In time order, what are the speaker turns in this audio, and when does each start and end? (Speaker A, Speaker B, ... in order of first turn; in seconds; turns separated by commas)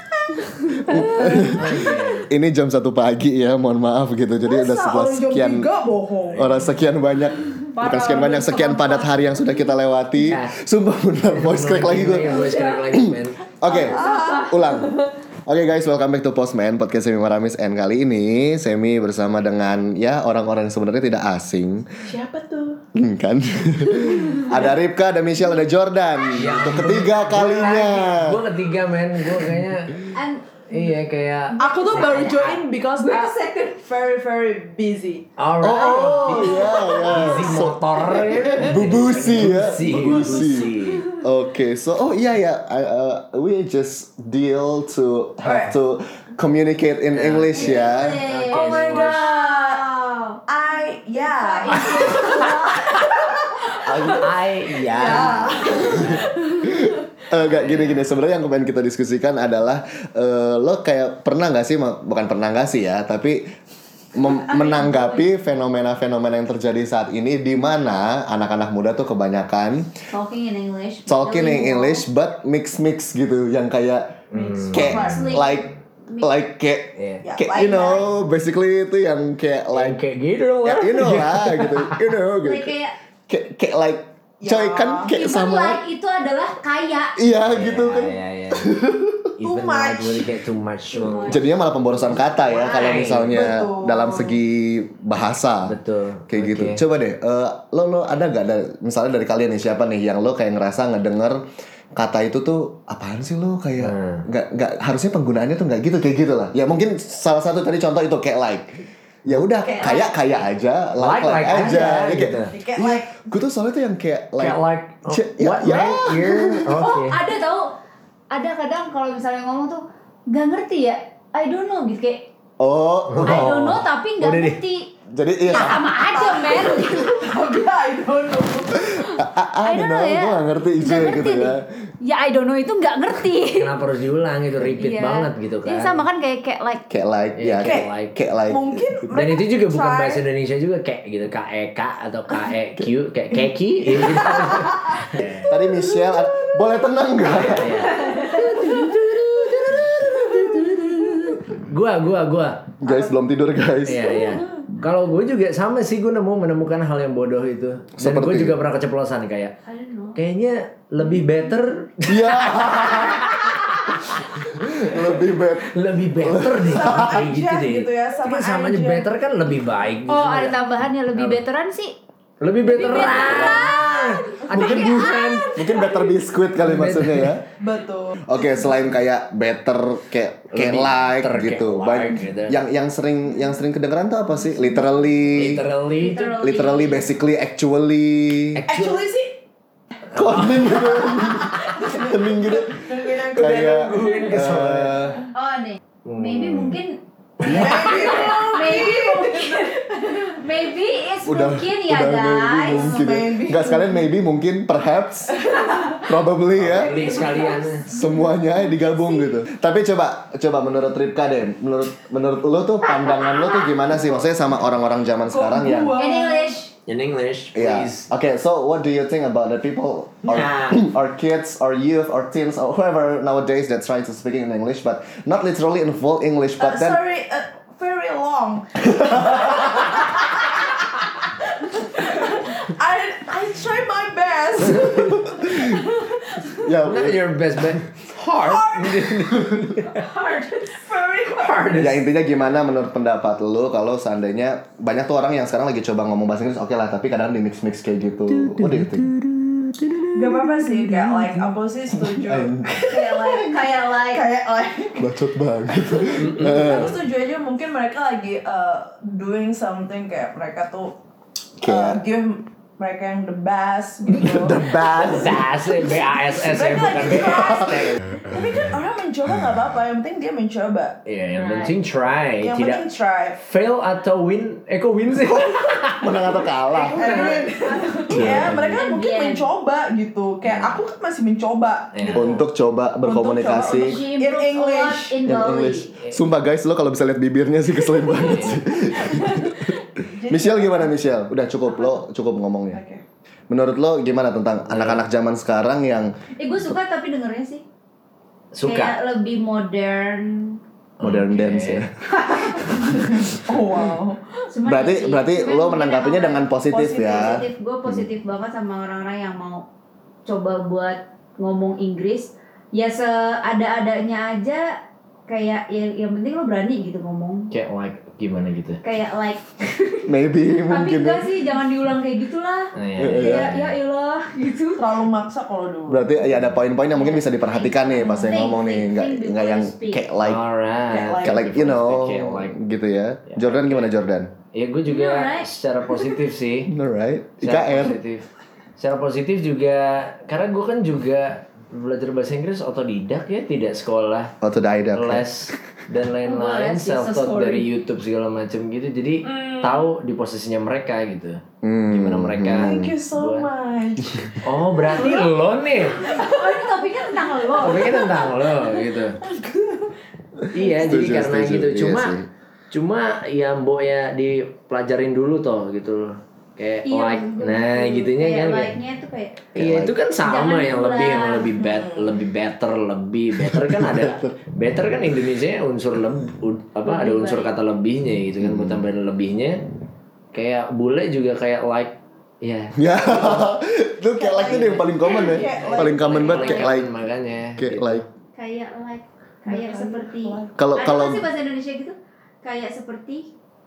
Speaker A: 0.3-1.3, Speaker B: 0.5-1.6, Speaker C: 0.8-5.7, Speaker D: 1.4-2.3, Speaker A: 4.5-6.5, Speaker D: 6.3-6.8, Speaker C: 6.4-21.9, Speaker B: 7.7-9.2, Speaker D: 10.2-10.5, Speaker D: 11.3-13.5, Speaker B: 12.3-12.8, Speaker B: 13.6-15.0, Speaker A: 13.7-14.6, Speaker A: 22.1-22.8, Speaker C: 22.9-28.4, Speaker A: 24.1-24.6, Speaker D: 26.3-30.1, Speaker B: 30.1-30.5, Speaker D: 30.7-32.3, Speaker A: 31.6-35.3, Speaker B: 31.6-33.6, Speaker D: 35.4-41.0, Speaker C: 35.6-48.2, Speaker B: 36.0-37.6, Speaker A: 36.2-37.2, Speaker A: 38.8-40.5, Speaker A: 45.4-45.8, Speaker D: 47.1-49.3, Speaker B: 47.5-50.4, Speaker A: 48.5-49.9, Speaker A: 50.5-54.2, Speaker B: 51.1-53.0, Speaker D: 53.9-56.4, Speaker C: 53.9-54.3, Speaker A: 54.7-56.3, Speaker C: 56.7-63.4, Speaker D: 57.3-58.1, Speaker C: 64.2-70.0, Speaker B: 64.3-65.2, Speaker B: 70.1-72.0, Speaker C: 71.1-74.2, Speaker D: 74.3-74.9, Speaker A: 74.3-75.3, Speaker C: 74.7-80.0, Speaker B: 74.7-76.3, Speaker D: 77.0-77.2, Speaker A: 77.2-78.1, Speaker D: 79.7-82.1, Speaker C: 80.6-82.8, Speaker B: 82.4-82.9, Speaker C: 83.3-85.8, Speaker A: 84.4-85.1, Speaker B: 85.1-87.2, Speaker C: 87.2-89.3, Speaker D: 87.4-88.7, Speaker D: 89.4-91.4, Speaker A: 89.4-90.3, Speaker B: 90.9-91.5, Speaker C: 91.3-95.8, Speaker B: 92.2-93.1, Speaker D: 92.5-93.3, Speaker A: 93.2-94.4, Speaker D: 95.6-96.8, Speaker C: 96.3-101.4, Speaker C: 102.0-116.9, Speaker D: 103.8-104.2, Speaker A: 109.6-110.1, Speaker D: 111.0-112.5, Speaker A: 111.8-113.2, Speaker D: 114.4-117.2, Speaker B: 116.7-117.8, Speaker B: 118.3-122.2, Speaker C: 122.6-123.7, Speaker D: 123.1-124.6, Speaker B: 123.2-124.9, Speaker C: 125.1-125.8, Speaker B: 125.5-127.1, Speaker A: 125.5-128.9, Speaker C: 128.9-131.7, Speaker B: 129.0-133.7, Speaker D: 133.5-136.0, Speaker B: 134.8-136.8, Speaker C: 136.9-138.8, Speaker D: 137.4-138.2, Speaker A: 137.6-137.9, Speaker A: 138.5-140.2, Speaker D: 139.1-145.3, Speaker A: 143.9-145.0, Speaker C: 145.2-147.9, Speaker A: 145.9-146.4, Speaker D: 147.2-152.7, Speaker B: 147.9-149.1, Speaker A: 148.1-148.8, Speaker C: 152.8-154.4, Speaker A: 152.8-153.1, Speaker D: 153.9-159.5, Speaker C: 158.0-158.6, Speaker B: 159.7-160.2, Speaker D: 160.2-171.4, Speaker C: 162.1-167.1, Speaker A: 166.6-169.1, Speaker B: 170.1-172.0, Speaker D: 172.4-175.5, Speaker B: 172.7-176.0, Speaker A: 172.8-173.7, Speaker C: 174.5-177.4, Speaker D: 176.6-177.4, Speaker A: 177.6-178.5, Speaker C: 178.2-185.6, Speaker D: 180.5-182.6, Speaker D: 185.4-186.3, Speaker B: 186.0-187.1, Speaker C: 186.4-188.6, Speaker D: 188.5-189.1, Speaker A: 188.7-189.4, Speaker D: 190.1-190.8, Speaker C: 190.1-195.2, Speaker A: 190.5-194.5, Speaker D: 193.3-195.2, Speaker B: 195.3-203.0, Speaker D: 196.1-196.8, Speaker D: 197.4-198.2, Speaker A: 197.4-199.8, Speaker C: 201.2-207.2, Speaker A: 202.7-204.1, Speaker A: 205.4-206.0, Speaker D: 206.6-207.8, Speaker A: 206.8-208.1, Speaker C: 207.9-216.0, Speaker B: 212.8-213.8, Speaker A: 215.3-216.6, Speaker B: 215.9-216.7, Speaker D: 216.9-218.1, Speaker C: 217.5-227.0, Speaker D: 220.3-220.9, Speaker A: 226.6-230.7, Speaker A: 231.7-236.4, Speaker C: 235.1-235.9, Speaker C: 236.5-237.3, Speaker D: 236.8-240.0, Speaker A: 238.3-241.9, Speaker D: 241.3-242.0, Speaker C: 241.8-249.1, Speaker D: 248.3-251.5, Speaker A: 250.1-255.2, Speaker C: 252.1-252.9, Speaker B: 252.9-254.2, Speaker C: 255.0-257.0, Speaker A: 255.7-260.9, Speaker D: 256.3-256.7, Speaker C: 261.6-262.0, Speaker A: 261.6-264.6, Speaker C: 264.1-265.4, Speaker D: 264.8-268.2, Speaker A: 266.2-271.0, Speaker D: 271.1-276.2, Speaker B: 271.4-271.8, Speaker A: 272.4-273.4, Speaker C: 276.0-277.1, Speaker B: 276.7-279.5, Speaker A: 277.0-282.4, Speaker C: 278.1-278.6, Speaker D: 278.2-278.7, Speaker D: 280.4-280.8, Speaker D: 281.9-282.4, Speaker C: 282.1-284.0, Speaker A: 283.0-285.2, Speaker B: 283.6-285.9, Speaker C: 285.3-289.8, Speaker D: 288.1-288.6, Speaker B: 289.1-289.6, Speaker A: 290.0-290.9, Speaker C: 290.3-292.8, Speaker A: 292.7-293.0, Speaker C: 293.5-296.1, Speaker D: 294.7-295.1, Speaker B: 296.4-297.6, Speaker D: 298.5-299.0, Speaker B: 298.6-300.6, Speaker D: 301.0-301.8, Speaker C: 301.0-303.1, Speaker B: 302.2-302.9, Speaker A: 302.9-304.4, Speaker B: 304.5-309.6, Speaker C: 304.6-308.1, Speaker A: 306.7-307.4, Speaker B: 310.2-314.8, Speaker B: 315.3-317.5, Speaker D: 317.5-318.8, Speaker B: 318.8-320.1, Speaker C: 320.1-321.3, Speaker B: 320.6-324.9, Speaker D: 322.8-323.8, Speaker C: 323.0-323.5, Speaker A: 324.8-326.1, Speaker C: 325.9-330.4, Speaker B: 326.9-330.1, Speaker D: 330.2-332.5, Speaker A: 330.9-331.4, Speaker C: 331.2-334.3, Speaker D: 333.3-333.9, Speaker D: 334.5-336.7, Speaker B: 334.9-335.5, Speaker C: 336.7-338.0, Speaker D: 337.4-344.3, Speaker C: 344.4-345.3, Speaker D: 344.9-353.5, Speaker B: 346.2-347.7, Speaker A: 349.2-349.8, Speaker C: 351.6-352.9, Speaker A: 352.5-354.4, Speaker D: 354.4-356.1, Speaker B: 354.9-355.3, Speaker B: 356.0-357.9, Speaker A: 356.1-359.9, Speaker D: 357.6-359.2, Speaker D: 360.5-362.1, Speaker C: 360.6-362.3, Speaker D: 362.7-368.7, Speaker B: 366.9-369.5, Speaker C: 369.5-370.0, Speaker D: 369.6-379.6, Speaker B: 370.2-371.5, Speaker A: 371.6-372.2, Speaker C: 373.4-374.3, Speaker B: 376.9-377.6, Speaker C: 378.4-378.8, Speaker D: 380.3-383.5, Speaker C: 382.8-386.9, Speaker A: 384.2-386.6, Speaker D: 385.1-388.1, Speaker C: 387.6-388.0, Speaker B: 388.4-393.3, Speaker A: 389.5-390.5, Speaker C: 390.6-391.2